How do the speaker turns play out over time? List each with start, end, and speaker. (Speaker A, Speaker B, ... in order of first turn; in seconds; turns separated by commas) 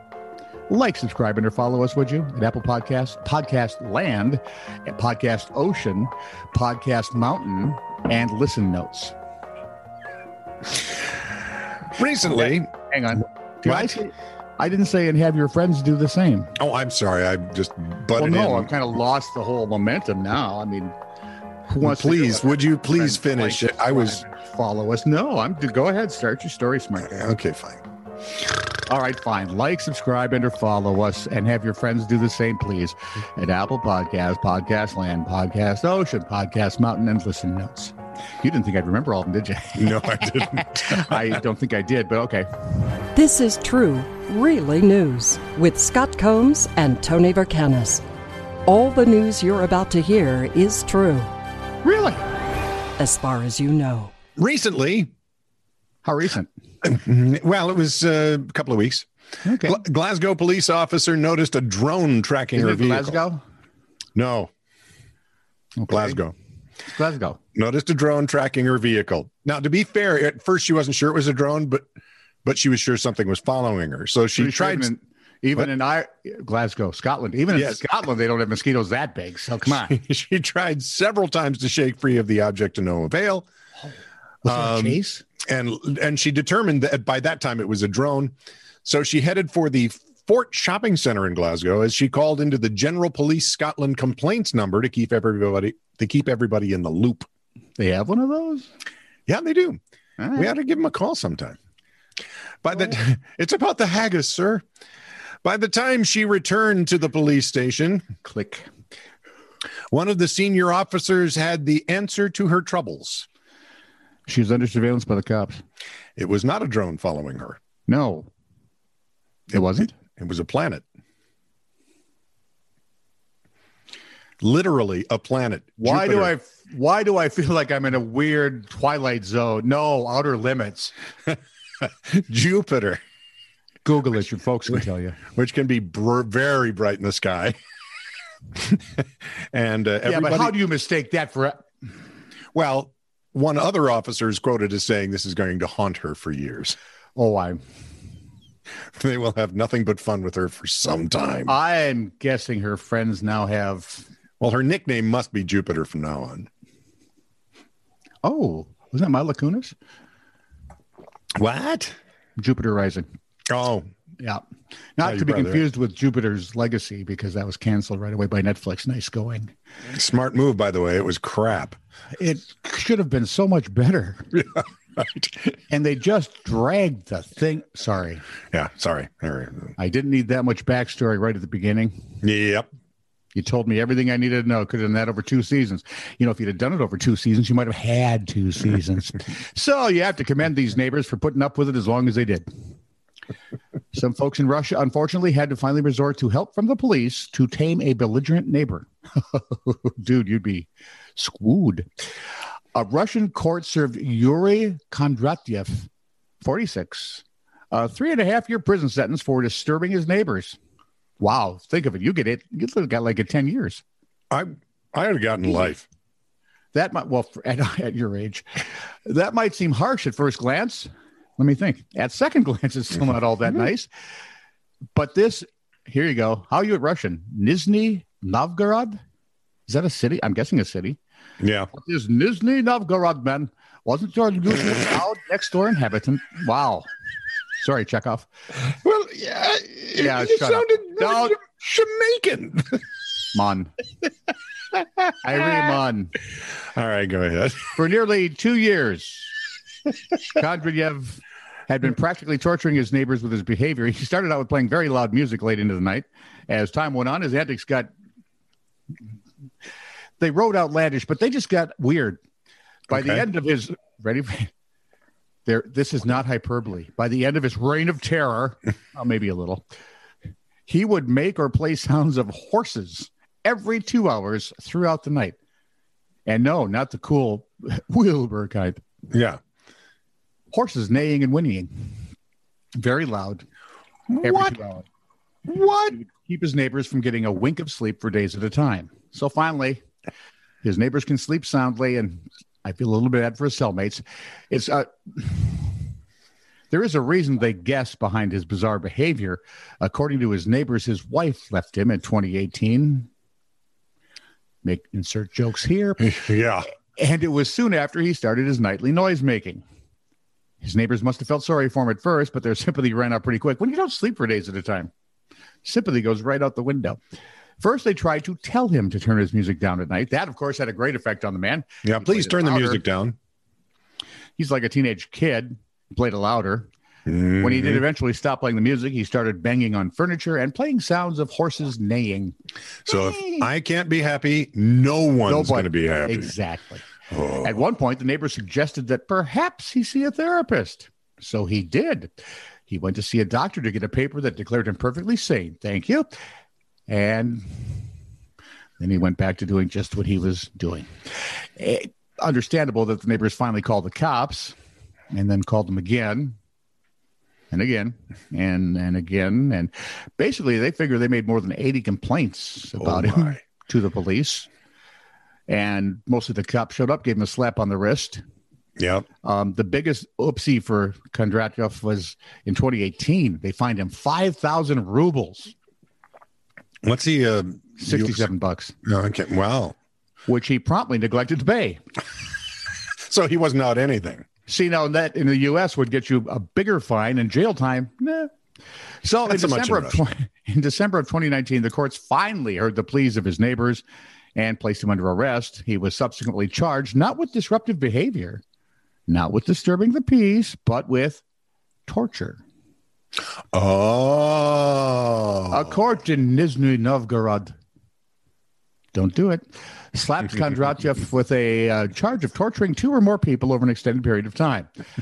Speaker A: 0.7-9.1, Speaker B: 11.9-12.7, Speaker A: 12.3-16.6, Speaker B: 13.7-14.0, Speaker B: 16.6-18.7, Speaker A: 18.2-20.9, Speaker A: 21.7-27.1, Speaker B: 21.8-24.2, Speaker B: 27.0-27.8, Speaker A: 28.9-42.5, Speaker B: 39.8-41.4, Speaker C: 43.1-48.0, Speaker C: 48.7-51.3, Speaker A: 51.8-52.2, Speaker C: 53.0-54.1, Speaker B: 54.4-55.1, Speaker A: 56.0-56.5, Speaker B: 56.8-59.1, Speaker A: 59.4-59.8, Speaker B: 59.6-63.2, Speaker A: 62.5-63.4, Speaker B: 64.2-64.5, Speaker A: 65.8-66.2, Speaker B: 65.9-66.3, Speaker A: 66.8-67.4, Speaker B: 67.5-71.8, Speaker B: 72.5-74.9, Speaker A: 74.4-80.0, Speaker B: 77.5-77.8, Speaker B: 79.7-83.5, Speaker A: 84.5-85.2, Speaker B: 84.5-88.3, Speaker B: 88.8-97.2, Speaker A: 97.8-98.7, Speaker B: 99.3-99.8, Speaker A: 100.2-100.5, Speaker B: 100.3-101.6, Speaker B: 102.6-104.7, Speaker B: 105.4-108.0, Speaker A: 108.2-108.7, Speaker B: 109.9-113.3, Speaker A: 114.3-115.6, Speaker B: 116.2-117.6, Speaker A: 117.9-118.3, Speaker B: 119.5-120.8, Speaker A: 119.5-119.9, Speaker B: 124.4-126.3, Speaker A: 125.8-130.9, Speaker B: 132.1-133.0, Speaker A: 133.8-135.2, Speaker B: 135.3-137.6, Speaker B: 138.6-140.6, Speaker A: 140.1-141.6, Speaker B: 142.5-146.8, Speaker A: 147.2-147.6, Speaker B: 148.9-151.5, Speaker A: 151.5-154.1, Speaker B: 154.4-156.5, Speaker A: 158.2-159.8, Speaker B: 161.4-162.0, Speaker A: 162.4-163.1, Speaker B: 163.5-163.9, Speaker A: 165.0-169.5, Speaker B: 165.0-165.7, Speaker B: 169.9-171.8, Speaker A: 172.2-174.4, Speaker A: 175.7-178.2, Speaker B: 178.5-179.7, Speaker A: 179.8-182.0, Speaker B: 182.2-182.7, Speaker A: 183.3-192.5, Speaker A: 193.9-201.9, Speaker A: 202.8-205.9, Speaker A: 206.4-210.6, Speaker A: 211.2-213.8, Speaker B: 214.3-215.9, Speaker A: 216.7-223.9, Speaker A: 224.9-229.0, Speaker A: 229.7-231.0, Speaker B: 231.4-231.7, Speaker A: 231.7-236.9, Speaker A: 237.6-238.3, Speaker B: 238.7-242.8, Speaker A: 240.0-241.4, Speaker A: 243.3-243.7, Speaker A: 245.2-246.1, Speaker B: 246.7-247.8, Speaker A: 247.8-249.3, Speaker A: 250.3-257.9, Speaker A: 260.2-262.2, Speaker A: 262.9-264.5, Speaker A: 265.5-269.6, Speaker A: 270.7-275.4, Speaker A: 276.3-278.8, Speaker B: 279.1-279.4, Speaker A: 280.5-281.9, Speaker A: 282.8-283.4, Speaker B: 284.1-284.6, Speaker A: 284.2-284.9, Speaker B: 285.5-286.0, Speaker A: 285.9-289.8, Speaker A: 290.6-295.7, Speaker A: 296.7-303.1, Speaker A: 304.6-306.1, Speaker B: 306.0-306.7, Speaker A: 306.9-309.6, Speaker A: 310.6-314.9, Speaker A: 315.6-317.0, Speaker A: 317.6-322.8, Speaker B: 321.8-323.2, Speaker A: 324.4-326.7, Speaker B: 327.1-327.8, Speaker A: 327.4-332.3, Speaker B: 332.9-336.3, Speaker A: 332.9-333.5, Speaker A: 335.3-336.9, Speaker B: 337.1-337.5, Speaker A: 337.4-342.1, Speaker A: 342.7-346.1, Speaker A: 346.9-347.8, Speaker A: 348.8-350.9, Speaker A: 351.6-354.6, Speaker A: 355.1-356.4, Speaker A: 357.5-364.5, Speaker B: 362.8-363.4, Speaker A: 365.5-368.2, Speaker B: 368.8-369.1, Speaker A: 369.2-375.5, Speaker B: 376.9-378.3, Speaker A: 377.8-378.7, Speaker B: 378.9-379.8, Speaker A: 380.3-381.8, Speaker B: 383.1-384.2, Speaker A: 384.5-388.3, Speaker A: 389.0-393.8, Speaker B: 389.3-390.0, Speaker A: 394.4-398.4, Speaker A: 399.1-401.2, Speaker A: 401.9-402.4, Speaker B: 403.5-405.7, Speaker A: 405.5-407.6, Speaker A: 408.9-414.7